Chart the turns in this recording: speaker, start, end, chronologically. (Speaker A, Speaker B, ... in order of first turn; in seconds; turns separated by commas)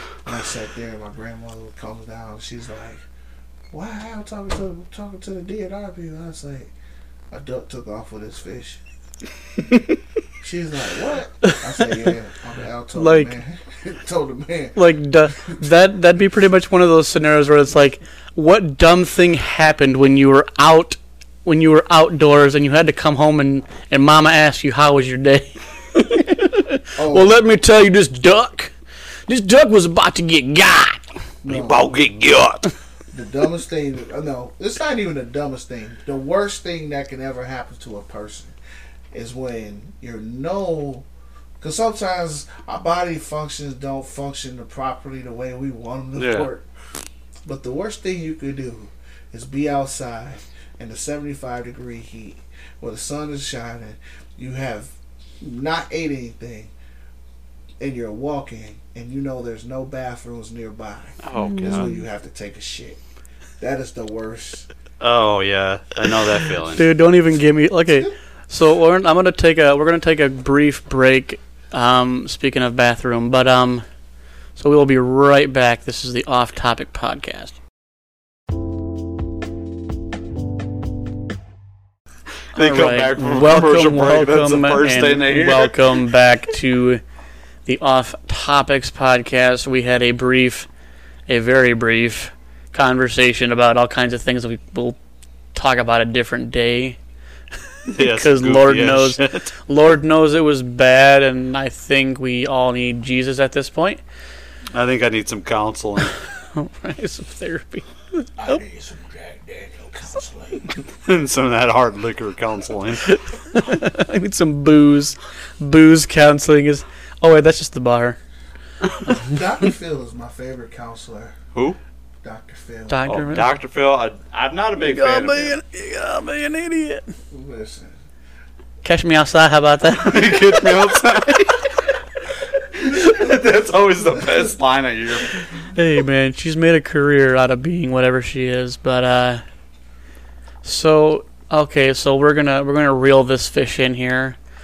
Speaker A: 0.2-3.0, Speaker A: 3.7-6.7, Speaker A: 7.3-8.8, Speaker A: 10.4-14.8, Speaker B: 12.9-13.3, Speaker B: 14.8-28.7, Speaker A: 15.3-15.6, Speaker A: 26.9-27.4, Speaker B: 29.3-31.0, Speaker A: 31.4-31.9, Speaker C: 31.4-32.7, Speaker A: 33.1-38.5, Speaker A: 39.1-41.1, Speaker A: 41.6-46.7, Speaker C: 46.1-46.5, Speaker A: 47.5-56.7, Speaker A: 57.8-63.0, Speaker C: 61.2-61.9, Speaker B: 61.4-62.0, Speaker A: 63.6-64.7, Speaker C: 65.0-66.8, Speaker B: 66.6-73.8, Speaker B: 74.5-77.5, Speaker C: 82.5-86.0, Speaker B: 82.5-87.0, Speaker B: 87.7-90.7, Speaker B: 91.3-95.0, Speaker B: 95.5-97.0, Speaker C: 97.9-99.5, Speaker B: 98.0-104.0, Speaker C: 104.7-106.1, Speaker B: 106.5-108.6, Speaker A: 108.4-110.8, Speaker C: 111.0-113.0, Speaker B: 113.0-118.2, Speaker A: 119.1-121.3, Speaker A: 122.2-123.1, Speaker B: 122.9-123.5, Speaker C: 123.1-125.6, Speaker B: 124.8-127.1, Speaker A: 127.3-128.0, Speaker B: 128.8-131.0, Speaker C: 130.0-131.7, Speaker C: 132.7-135.5, Speaker B: 135.7-139.4, Speaker B: 140.6-144.4